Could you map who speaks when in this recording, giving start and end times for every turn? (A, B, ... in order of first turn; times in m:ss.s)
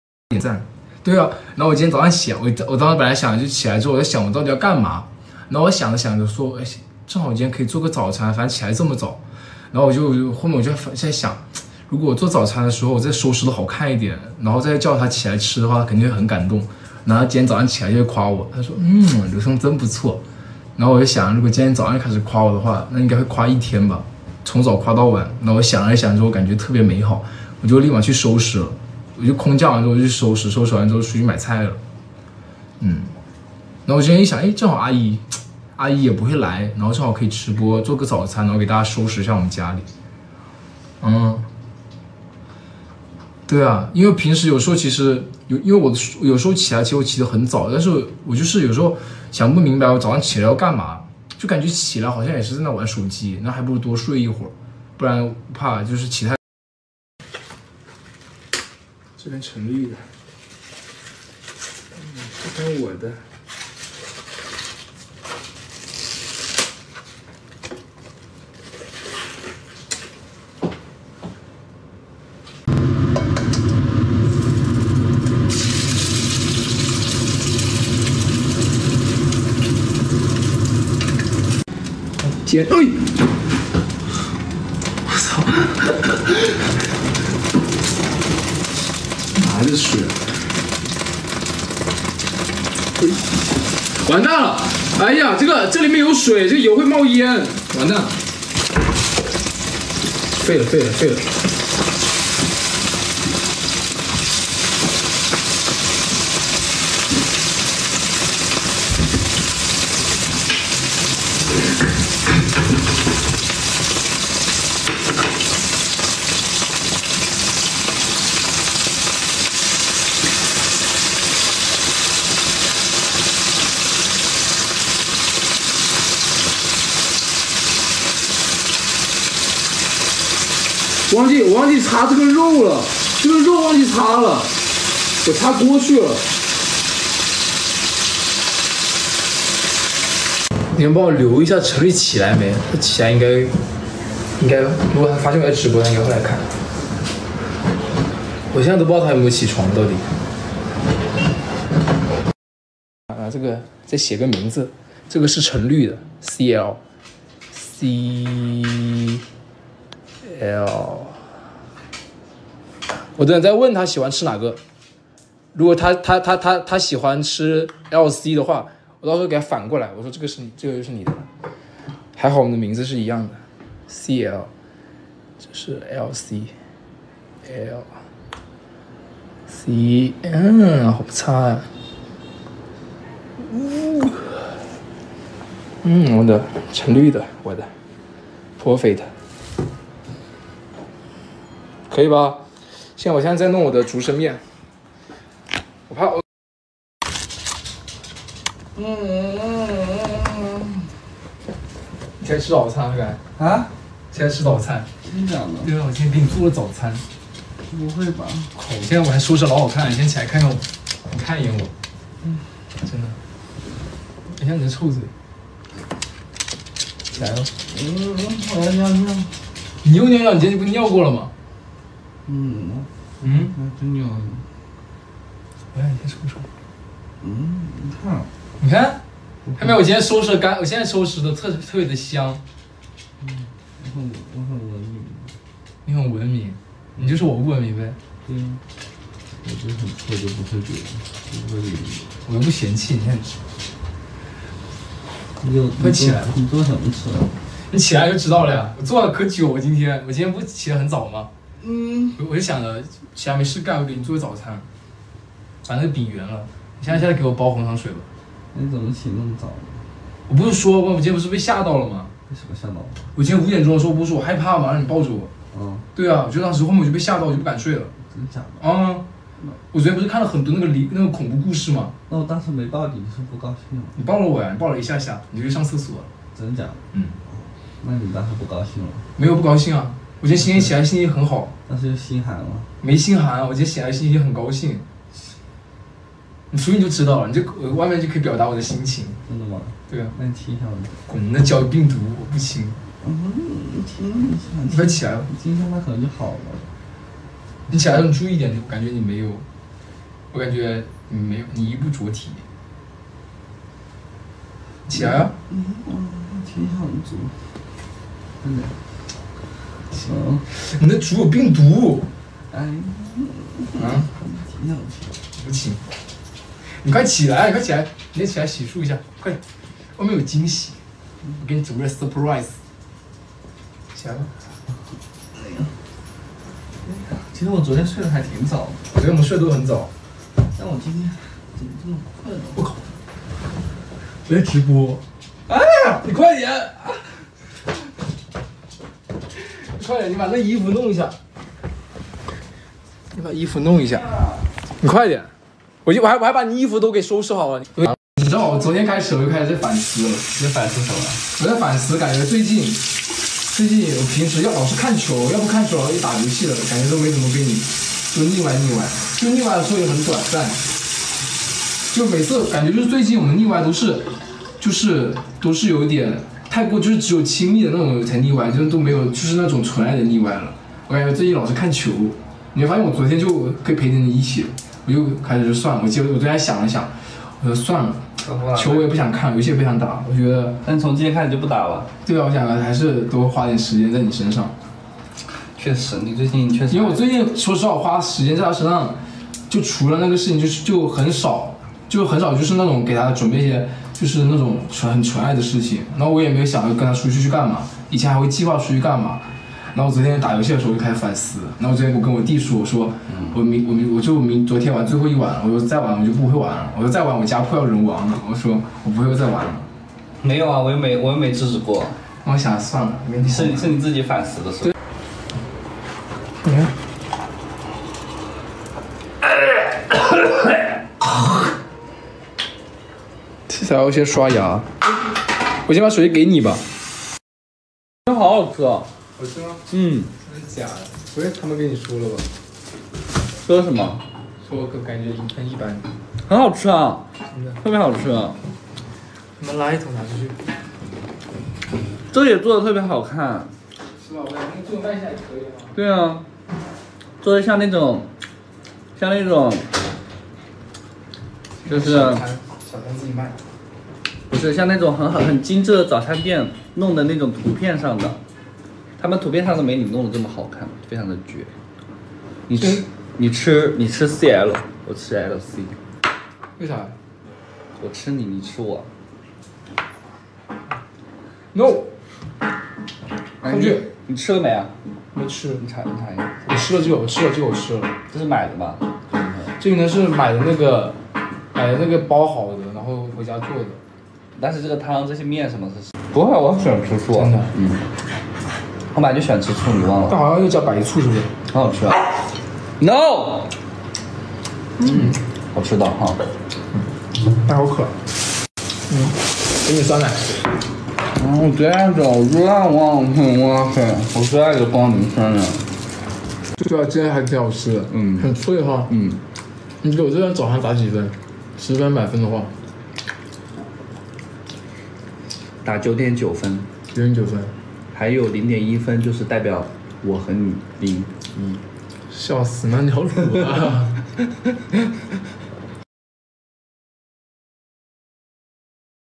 0:00.3-0:20.2 A
0:20.8-0:31.8 A
0:32.8-0:33.1 A
0:33.8-0:39.9 A
0:41.0-0:41.5 A
0:43.5-0:56.4 A
0:59.2-1:00.1 A
1:02.0-1:03.2 A
1:22.2-1:23.1 A
1:25.1-1:26.3 A
1:29.3-1:30.2 A
1:34.0-1:38.1 A
1:40.4-1:41.3 A
2:11.1-2:14.5 A
2:15.2-2:16.2 A
2:20.7-2:23.6 A
2:24.4-2:26.5 A
2:28.5-2:30.0 A
2:33.1-2:36.8 A
2:37.5-2:39.2 A
2:40.2-2:41.3 A
2:43.1-2:44.6 A
2:45.5-2:51.3 A
2:52.1-2:54.5 A
2:55.4-2:56.5 A
2:57.4-2:58.0 A
2:59.5-3:01.7 A
3:03.4-3:04.3 A
3:05.8-3:07.7 A
3:08.6-3:09.1 A
3:11.9-3:14.4 A
3:15.9-3:16.2 A
3:18.7-3:20.9 B
3:22.2-3:23.2 A
3:23.4-3:23.7 B
3:24.1-3:24.9 A
3:25.0-3:25.7 B
3:25.6-3:27.0 A
3:27.6-3:28.5 B
3:28.5-3:31.7 A
3:32.8-3:33.2 A
3:34.3-3:35.1 A
3:37.1-3:37.5 A
3:37.6-3:39.5 B
3:39.8-3:41.3 A
3:42.2-3:44.5 B
3:43.2-3:43.5 A
3:45.7-3:46.5 A
3:47.2-3:48.3 B
3:48.6-3:49.0 A
3:49.5-3:49.8 B
3:49.6-3:52.4 A
3:53.2-3:55.3 B
3:55.8-3:58.0 A
3:58.2-3:58.6 B
3:59.4-4:02.1 B
4:02.2-4:03.4 A
4:05.4-4:07.3 B
4:05.8-4:06.3 A
4:07.7-4:11.3 A
4:11.6-4:12.2 B
4:12.2-4:14.6 A
4:15.6-4:18.1 A
4:18.5-4:19.8 B
4:20.3-4:22.1 A
4:22.3-4:23.0 B
4:23.1-4:25.3 A
4:25.5-4:25.9 B
4:25.9-4:27.9 A
4:28.0-4:28.7 B
4:28.6-4:29.0 A
4:29.7-4:31.9 A
4:32.1-4:34.0 B
4:33.9-4:36.1 A
4:36.3-4:39.1 B
4:39.2-4:41.5 A
4:40.4-4:40.7 B
4:41.7-4:42.7 B
4:42.8-4:44.8 A
4:46.5-4:49.2 A
4:49.2-4:50.9 B
4:49.9-4:50.1 A
4:51.1-4:52.8 A
4:53.0-4:56.7 B
4:54.6-4:55.3 A
4:57.7-4:59.4 A
5:00.3-5:02.4 A
5:04.9-5:05.3 A
5:04.9-5:07.4 B
5:08.4-5:08.7 B
5:09.9-5:10.5 B
5:10.5-5:12.1 A
5:12.5-5:15.2 B
5:13.8-5:14.1 A
5:15.4-5:15.8 A
5:16.8-5:19.4 A
5:20.0-5:20.8 A
5:21.3-5:22.6 A
5:23.9-5:24.3 A
5:25.3-5:25.7 B
5:26.8-5:28.8 B
5:28.9-5:29.9 A
5:30.4-5:32.6 B
5:34.2-5:37.1 A
5:39.4-5:41.2 A
5:43.1-5:45.3 A
5:45.8-5:50.3 A
5:50.3-5:51.2 B
5:51.4-5:52.8 A
5:53.5-6:00.6 A
6:01.9-6:20.6 A
6:18.2-6:18.9 B
6:20.6-6:21.9 B
6:22.0-6:24.5 A
6:25.5-6:27.0 B
6:26.7-6:49.7 A
6:50.2-6:52.0 B
6:52.2-6:53.8 A
6:53.2-6:54.7 B
6:56.4-6:56.7 A
6:59.9-7:00.5 B
7:03.5-7:04.8 A
7:05.6-7:06.6 A
7:08.1-7:08.9 B
7:09.2-7:12.3 A
7:09.7-7:10.1 B
7:13.4-7:14.0 B
7:14.4-7:15.9 A
7:16.2-7:17.1 B
7:17.3-7:17.6 A
7:17.6-7:18.4 B
7:19.4-7:20.4 A
7:22.1-7:23.5 B
7:24.0-7:25.8 A
7:25.7-7:26.3 B
7:27.2-7:28.1 B
7:28.9-7:29.7 B
7:31.6-7:33.4 A
7:31.6-7:32.2 B
7:34.3-7:38.2 B
7:39.0-7:41.5 B
7:42.5-7:45.8 B
7:42.6-7:42.8 A
7:46.6-7:47.0 A
7:47.8-7:48.9 B
7:51.5-7:51.9 A
7:53.4-7:54.7 B
7:53.4-7:53.9 A
7:55.1-7:55.6 A
7:55.6-7:56.4 B
7:56.4-7:57.9 A
7:58.1-7:59.5 B
7:59.5-8:01.0 A
8:01.5-8:03.8 A
8:04.3-8:07.8 B
8:07.1-8:07.5 A
8:08.9-8:10.2 B
8:10.1-8:11.3 A
8:11.5-8:12.2 B
8:12.8-8:13.5 B
8:14.8-8:15.2 A
8:14.8-8:16.2 B
8:17.4-8:17.9 A
8:18.9-8:20.4 A
8:21.1-8:25.7 B
8:26.5-8:28.9 A
8:27.9-8:28.3 B
8:28.9-8:29.2 B
8:29.8-8:32.5 A
8:35.6-8:36.7 B
8:36.9-8:37.6 A
8:37.9-8:41.3 B
8:42.1-8:44.2 A